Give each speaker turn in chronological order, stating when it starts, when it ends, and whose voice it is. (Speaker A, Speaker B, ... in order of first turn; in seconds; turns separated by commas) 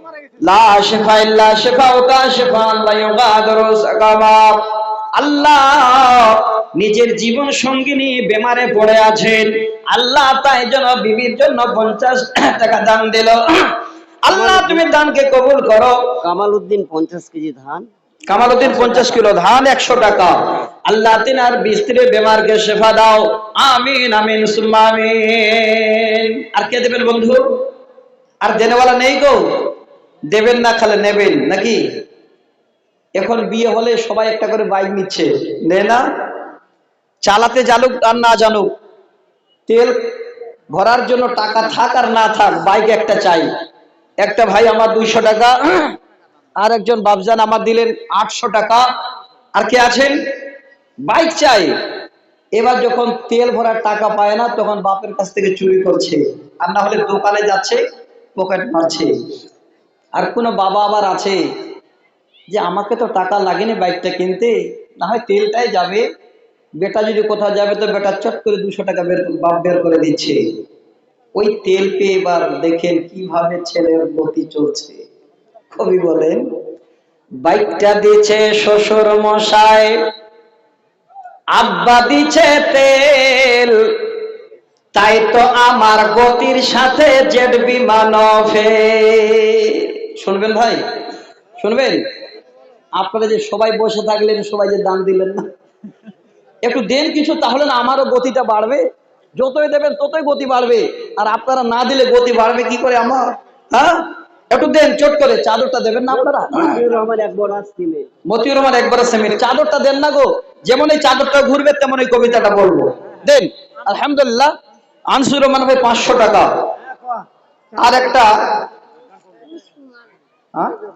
Speaker A: 0.4-16.1, Speaker B: 14.3-14.8, Speaker B: 16.2-17.9, Speaker A: 18.3-27.6, Speaker B: 18.6-19.2, Speaker A: 28.4-29.7, Speaker A: 30.3-31.8, Speaker A: 33.1-36.0, Speaker A: 37.2-38.7, Speaker A: 39.7-40.2, Speaker A: 40.7-43.5, Speaker A: 44.2-46.0, Speaker A: 46.6-48.8, Speaker A: 49.5-50.1, Speaker A: 51.1-51.7, Speaker A: 52.5-57.8, Speaker A: 58.3-59.1, Speaker A: 60.1-61.4, Speaker A: 62.5-66.0, Speaker A: 66.8-70.4, Speaker A: 71.3-75.0, Speaker A: 75.7-76.4, Speaker A: 77.4-80.0, Speaker A: 81.5-84.2, Speaker A: 84.9-90.8, Speaker A: 91.6-92.0, Speaker A: 92.9-95.5, Speaker A: 96.6-106.8, Speaker B: 106.1-108.1, Speaker A: 108.3-114.5, Speaker A: 115.1-116.5, Speaker A: 117.7-118.7